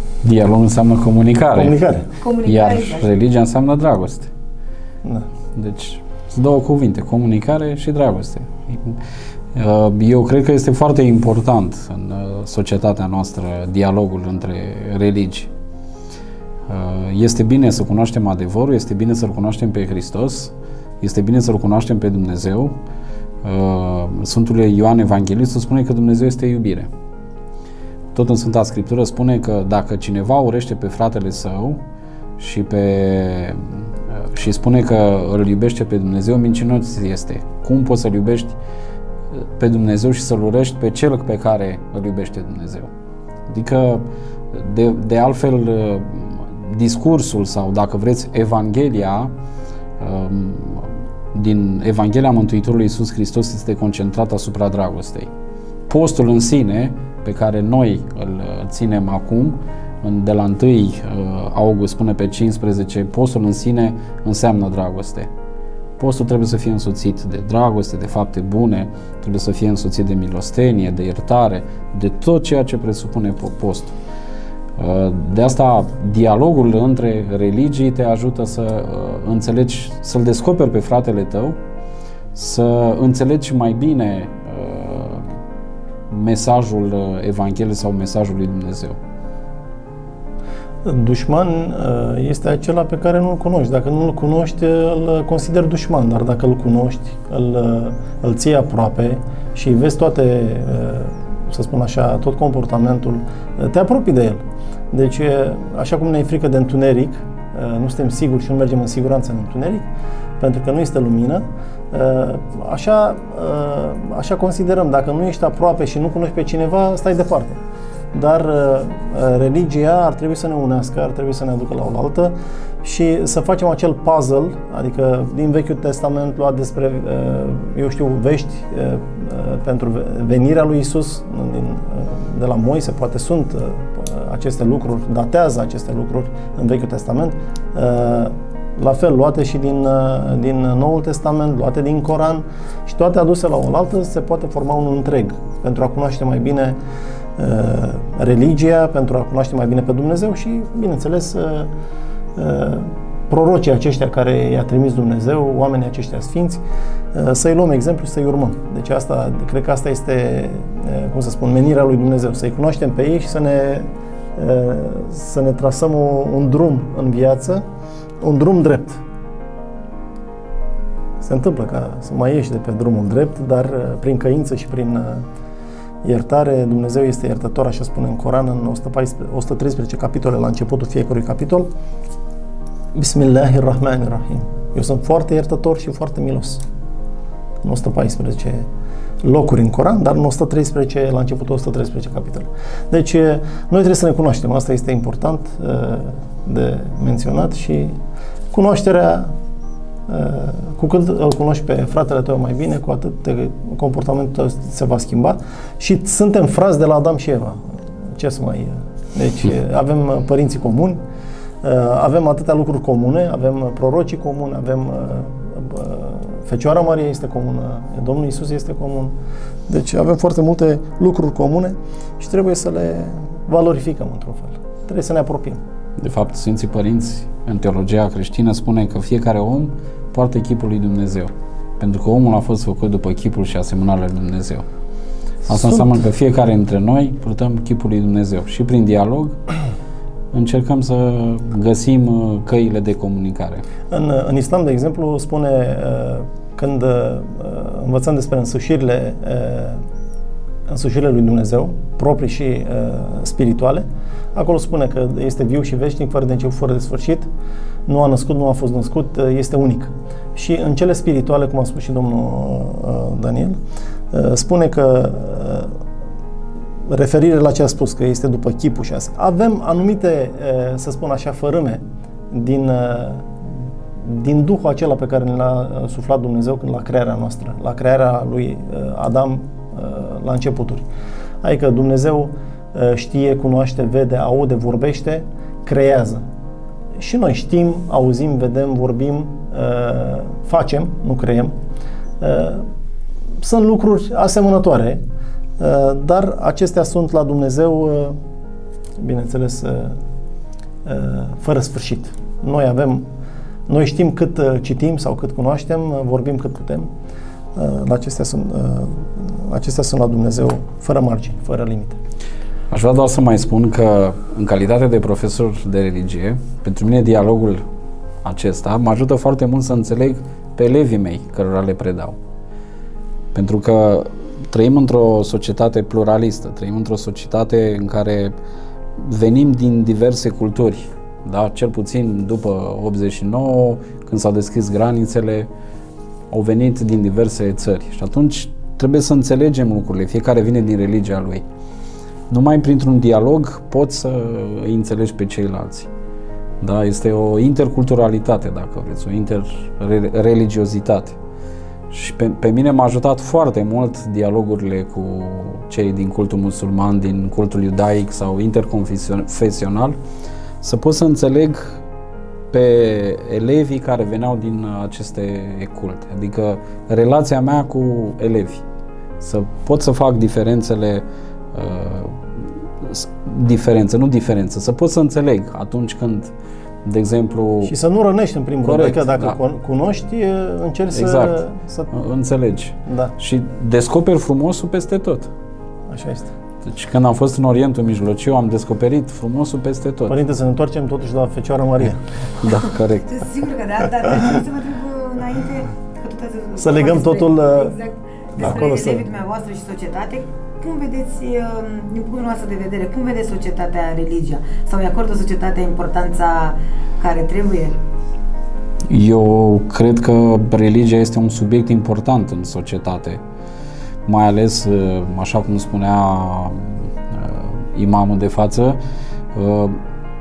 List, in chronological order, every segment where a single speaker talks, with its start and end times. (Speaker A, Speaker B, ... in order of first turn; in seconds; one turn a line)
Speaker A: 0.2-1.8
Speaker B: 1.5-2.1
Speaker C: 2.2-3.1
Speaker A: 2.4-4.3
Speaker A: 5.5-9.0
Speaker A: 9.5-15.5
Speaker A: 16.7-22.8
Speaker A: 23.4-26.9
Speaker A: 28.1-31.8
Speaker A: 32.4-38.6
Speaker A: 39.3-42.9
Speaker A: 43.5-49.3
Speaker A: 50.0-55.3
Speaker A: 55.9-65.3
Speaker A: 66.0-73.9
Speaker A: 74.8-81.6
Speaker A: 82.3-85.3
Speaker A: 86.1-89.0
Speaker B: 90.8-109.9
Speaker B: 110.4-117.6
Speaker B: 118.1-146.8
Speaker B: 147.4-151.7
Speaker B: 152.3-167.6
Speaker B: 168.2-169.0
Speaker B: 171.2-175.2
Speaker B: 176.0-181.7
Speaker B: 182.9-186.6
Speaker B: 187.6-188.7
Speaker B: 189.2-197.9
Speaker B: 198.5-199.3
Speaker B: 200.1-211.0
Speaker B: 211.6-219.2
Speaker B: 219.7-225.6
Speaker A: 226.0-234.6
Speaker A: 235.5-239.4
Speaker A: 240.3-243.6
Speaker B: 243.9-249.8
Speaker B: 250.7-257.3
Speaker B: 257.9-263.6
Speaker B: 264.1-265.8
Speaker B: 266.9-280.9
Speaker B: 281.4-286.2
Speaker B: 286.9-291.5
Speaker B: 292.2-292.6
Speaker B: 293.4-295.0
Speaker B: 295.6-298.2
Speaker B: 299.0-300.0
Speaker B: 300.8-303.1
Speaker B: 303.7-306.9
Speaker B: 307.5-312.0
Speaker A: 312.7-317.6
Speaker A: 318.2-322.1
Speaker A: 323.3-328.3
Speaker A: 329.0-335.5
Speaker A: 336.3-341.4
Speaker A: 342.3-345.9
Speaker A: 346.6-351.2
Speaker A: 351.9-360.0
Speaker A: 360.6-361.8
Speaker A: 362.5-368.6
Speaker A: 369.2-376.3
Speaker A: 376.8-377.7
Speaker B: 377.6-381.9
Speaker A: 378.6-379.4
Speaker A: 380.9-385.3
Speaker B: 382.9-383.1
Speaker B: 385.9-386.3
Speaker A: 386.6-390.2
Speaker B: 390.1-392.0
Speaker A: 392.4-393.1
Speaker C: 393.0-407.8
Speaker B: 396.6-397.8
Speaker B: 398.4-399.1
Speaker A: 408.9-413.2
Speaker A: 414.1-418.8
Speaker A: 419.3-419.8